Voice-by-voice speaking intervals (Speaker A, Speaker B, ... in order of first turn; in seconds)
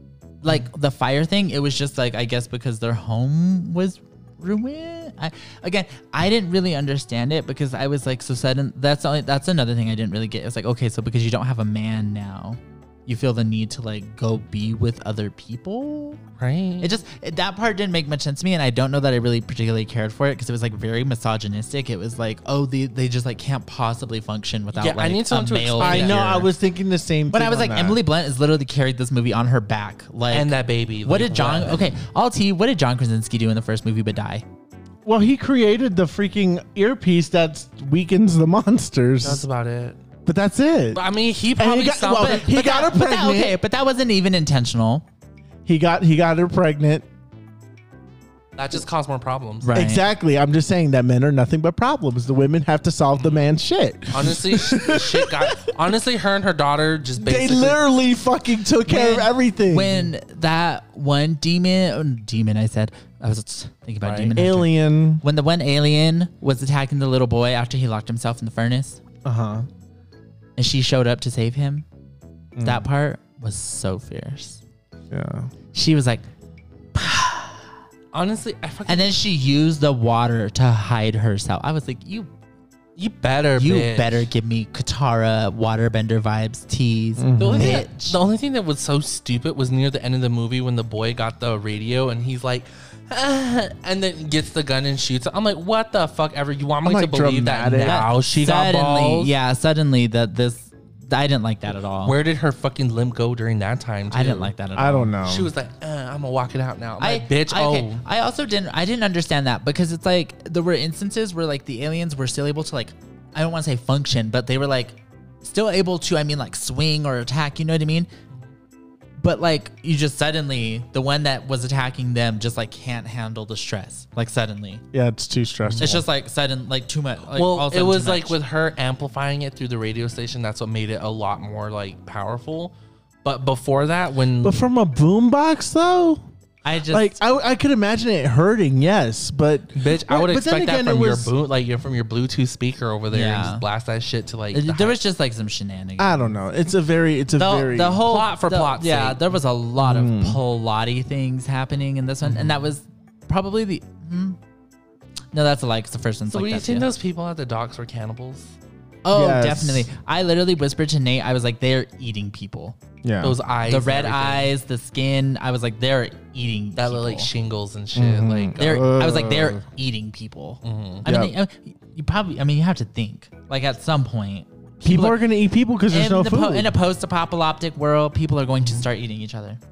Speaker A: 0.4-16.2, 16.8-26.5, 27.3-30.5, 31.1-34.5, 42.2-45.0, 49.6-50.0, 58.9-69.0, 70.6-71.8, 72.6-74.6, 75.7-76.2, 76.9-77.7, 78.9-82.3, 83.6-88.2, 97.8-102.2, 104.1-105.1, 107.0-118.1, 119.2-124.8, 125.8-128.4, 136.6-137.2, 143.1-143.6, 144.5-146.4, 147.4-154.4, 155.3-156.9, 159.0-162.8, 163.7-167.3, 168.6-175.2, 175.9-179.6
Speaker B: 16.4-16.9, 24.7-26.5, 30.3-31.9, 39.2-40.0, 40.9-42.5, 48.6-49.7, 53.2-53.4, 54.1-57.8, 64.0-64.3, 78.1-79.2, 83.0-84.3, 87.4-99.3, 102.0-104.5, 105.2-108.0, 125.6-126.0, 127.3-134.6, 139.8-145.0, 148.1-149.2, 152.2-152.6, 156.3-158.6, 163.2-164.5, 166.8-168.8, 170.6-171.1
Speaker C: 25.8-28.0, 35.0-39.4, 40.3-43.6, 45.7-47.0, 49.7-55.7, 57.2-60.1, 64.3-65.2, 69.2-69.7, 72.6-72.9, 75.1-75.5, 87.2-87.9, 96.8-98.1, 104.8-105.5, 124.9-126.0, 134.4-136.2, 136.9-141.3, 146.0-148.0, 149.8-150.4, 159.1-159.9, 163.0-163.4, 167.9-169.7, 171.0-171.3, 174.8-176.8